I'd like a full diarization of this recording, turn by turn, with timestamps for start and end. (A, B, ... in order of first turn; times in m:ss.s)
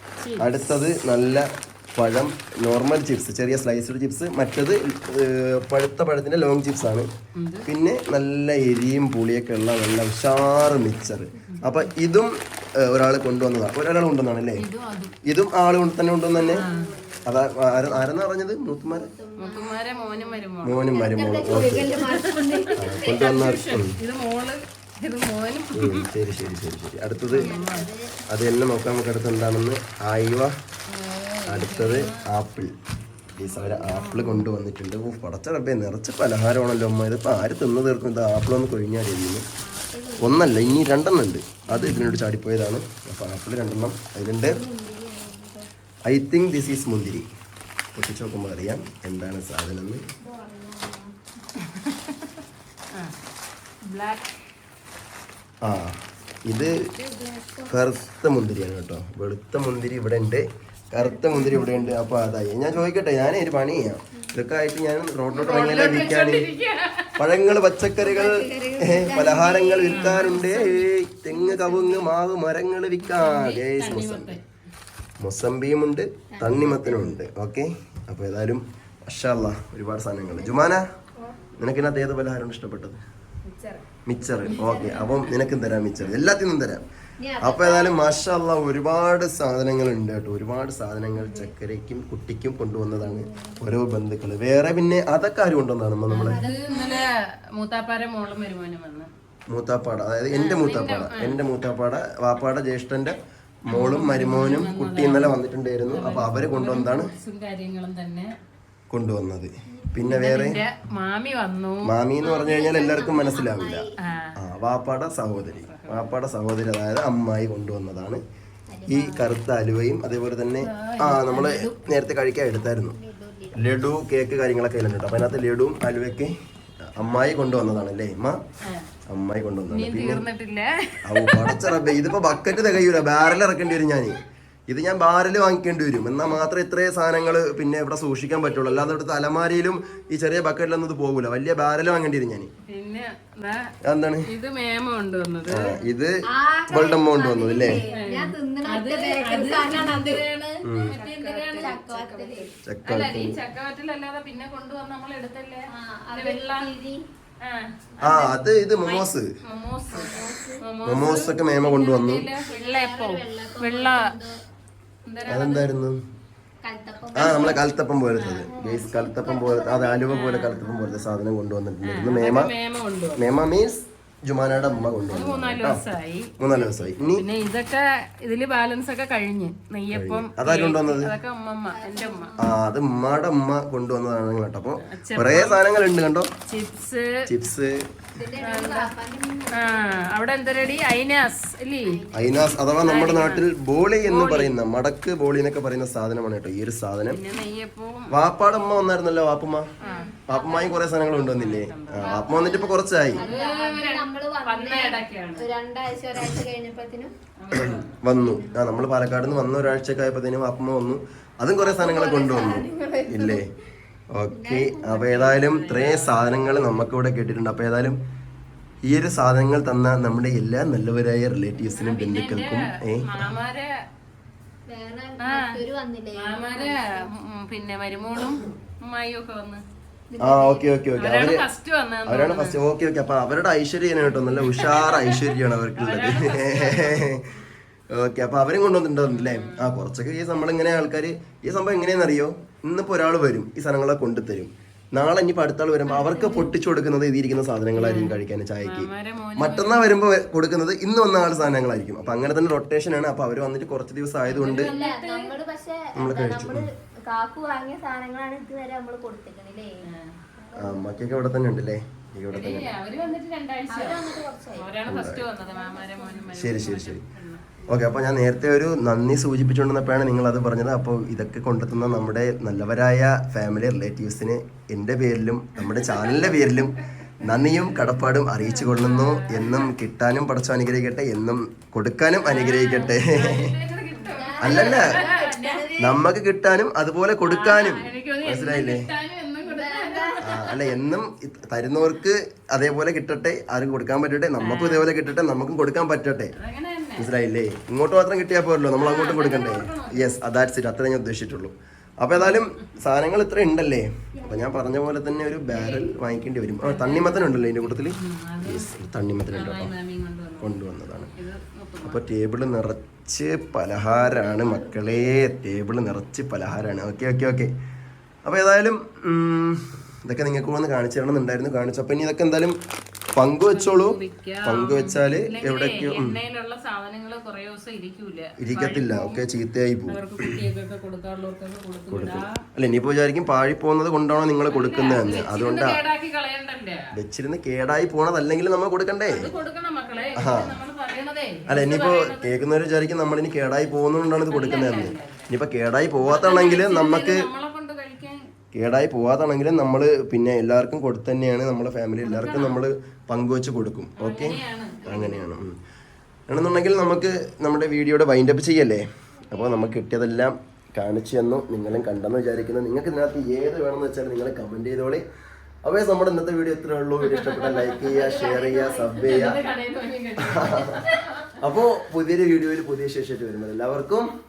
0:00.2-0:00.6 A
0:00.4-0:07.1 B
0:07.4-0:07.7 A
0:07.6-0:14.6 B
0:14.6-0:15.2 A
0:15.2-0:16.6 B
0:16.3-0:17.7 C
0:16.5-0:16.9 A
0:17.2-0:19.1 B
0:18.8-0:23.0 C
0:19.4-0:20.9 A
0:20.6-0:21.9 B
0:21.9-0:26.1 A
0:22.8-0:24.0 B
0:25.8-0:27.5 B
0:27.3-0:27.9 A
0:27.4-0:28.1 C
0:28.3-0:30.5 B
0:30.9-0:32.2 A
0:31.5-0:32.7 B
0:33.3-0:39.4 B
0:33.4-0:34.5 A
0:39.6-0:41.1 C
0:40.2-0:44.6 B
0:41.7-0:42.2 A
0:44.4-0:45.7 C
0:46.1-0:47.2 B
0:47.9-0:50.0 B
0:50.2-0:51.2 C
0:51.6-0:52.4 A
0:53.8-0:54.3 A
0:55.6-0:56.9 B
0:56.6-0:57.8 C
0:57.7-1:06.5 B
1:01.0-1:01.7 C
1:05.3-1:07.2 A
1:07.2-1:14.4 B
1:08.0-1:12.0 C
1:09.9-1:10.6 A
1:11.5-1:12.1 A
1:13.0-1:14.4 A
1:15.2-1:20.8 B
1:16.3-1:17.2 C
1:20.3-1:21.5 C
1:21.6-1:23.0 B
1:23.4-1:23.8 C
1:24.0-1:26.8 B
1:24.4-1:25.5 C
1:24.5-1:25.2 A
1:27.2-1:28.2 C
1:27.4-1:36.4 B
1:31.2-1:31.5 C
1:33.0-1:33.6 C
1:36.1-1:39.1 A
1:36.2-1:37.1 C
1:39.5-1:47.1 B
1:40.3-1:41.4 A
1:43.7-1:45.4 A
1:45.9-1:48.3 A
1:48.9-1:50.6 B
1:49.7-1:50.1 C
1:50.0-1:51.9 A
1:51.8-1:53.8 B
1:52.2-1:54.0 C
1:54.0-1:54.3 A
1:54.4-1:58.2 B
1:55.7-1:56.1 A
1:58.7-1:59.3 C
1:58.9-2:03.0 B
2:00.6-2:01.8 A
2:02.8-2:04.0 C
2:03.5-2:08.4 B
2:08.6-2:08.9 A
2:09.1-2:10.2 B
2:09.7-2:12.4 A
2:11.0-2:22.5 B
2:22.7-2:23.7 A
2:23.8-2:24.3 B
2:24.3-2:25.8 A
2:25.5-2:26.1 B
2:26.3-2:32.5 C
2:26.7-2:27.8 B
2:27.9-2:36.7 A
2:30.6-2:30.9 B
2:32.6-2:33.4 B
2:35.7-2:37.0 C
2:37.4-2:44.1 A
2:38.0-2:39.3 B
2:39.9-2:40.6 C
2:40.8-2:42.3 B
2:42.4-2:44.4 C
2:45.0-2:45.7 A
2:45.3-2:46.0 B
2:46.6-2:47.6 C
2:47.1-2:52.5 B
2:48.2-2:48.5 A
2:48.5-2:51.2 C
2:50.1-2:50.6 A
2:51.8-2:53.2 A
2:53.2-2:55.8 B
2:54.4-2:55.0 C
2:55.1-3:02.4 A
2:56.4-2:57.2 B
2:59.9-3:01.1 B
3:01.7-3:02.5 C
3:02.4-3:06.3 B
3:04.8-3:05.6 A
3:06.5-3:07.2 A
3:07.2-3:07.8 B
3:08.1-3:11.1 C
3:08.4-3:08.9 A
3:09.5-3:12.0 A
3:11.8-3:12.9 C
3:12.1-3:17.2 B
3:12.8-3:13.4 A
3:14.0-3:14.5 A
3:17.1-3:18.9 A
3:18.1-3:19.7 B
3:19.8-3:20.3 C
3:19.8-3:25.5 A
3:20.3-3:23.2 B
3:23.1-3:27.1 C
3:27.4-3:28.0 A
3:27.5-3:33.4 B
3:28.1-3:28.9 C
3:31.6-3:33.4 C
3:34.1-3:38.0 B
3:34.3-3:35.1 C
3:35.0-3:36.9 A
3:38.8-3:43.3 B
3:41.7-3:43.7 A
3:44.7-3:47.1 C
3:45.2-3:45.6 A
3:46.1-3:49.6 A
3:50.1-3:50.7 C
3:50.2-3:51.4 B
3:51.0-3:52.6 A
3:52.0-3:57.3 B
3:54.0-3:57.0 A
3:57.9-4:14.7 B
3:59.1-3:59.8 A
4:05.8-4:06.5 C
4:07.8-4:10.0 A
4:14.3-4:15.3 A
4:14.5-4:19.8 C
4:15.9-4:16.7 B
4:19.8-4:20.2 A
4:20.4-4:21.0 C
4:20.6-4:22.7 B
4:22.3-4:27.5 A
4:23.7-4:24.8 C
4:24.9-4:25.2 B
4:25.4-4:26.5 C
4:26.3-4:27.0 B
4:27.7-4:43.5 B
4:35.6-4:36.4 A
4:37.3-4:39.7 A
4:42.2-4:45.7 A
4:44.0-4:46.0 C
4:44.4-4:45.0 B
4:45.8-4:48.9 B
4:47.2-4:50.5 A
4:49.4-4:50.2 C
4:50.2-4:56.3 B
4:54.4-4:54.9 A
4:56.4-4:57.1 A
4:57.0-5:09.7 B
4:58.7-5:00.2 A
5:02.2-5:02.4 A
5:04.2-5:04.8 C
5:05.5-5:06.0 A
5:06.6-5:10.5 A
5:10.4-5:11.1 B
5:11.1-5:12.0 A
5:11.8-5:17.5 B
5:13.8-5:15.3 C
5:18.2-5:22.6 B
5:23.2-5:26.2 B
5:23.5-5:29.2 A
5:28.4-5:30.4 B
5:29.9-5:32.4 A
5:31.9-5:35.8 B
5:34.5-5:36.9 A
5:36.9-5:39.3 B
5:39.1-5:42.4 A
5:39.9-5:40.4 C
5:40.2-5:40.6 B
5:41.5-5:47.2 B
5:44.3-5:45.3 A
5:46.0-5:48.2 A
5:48.5-5:55.5 B
5:52.0-5:52.6 A
5:54.0-5:55.2 A
5:56.3-6:05.0 B
6:05.6-6:09.4 B
6:07.0-6:07.8 A
6:07.8-6:09.2 C
6:08.9-6:11.4 A
6:10.2-6:10.8 B
6:11.4-6:14.1 B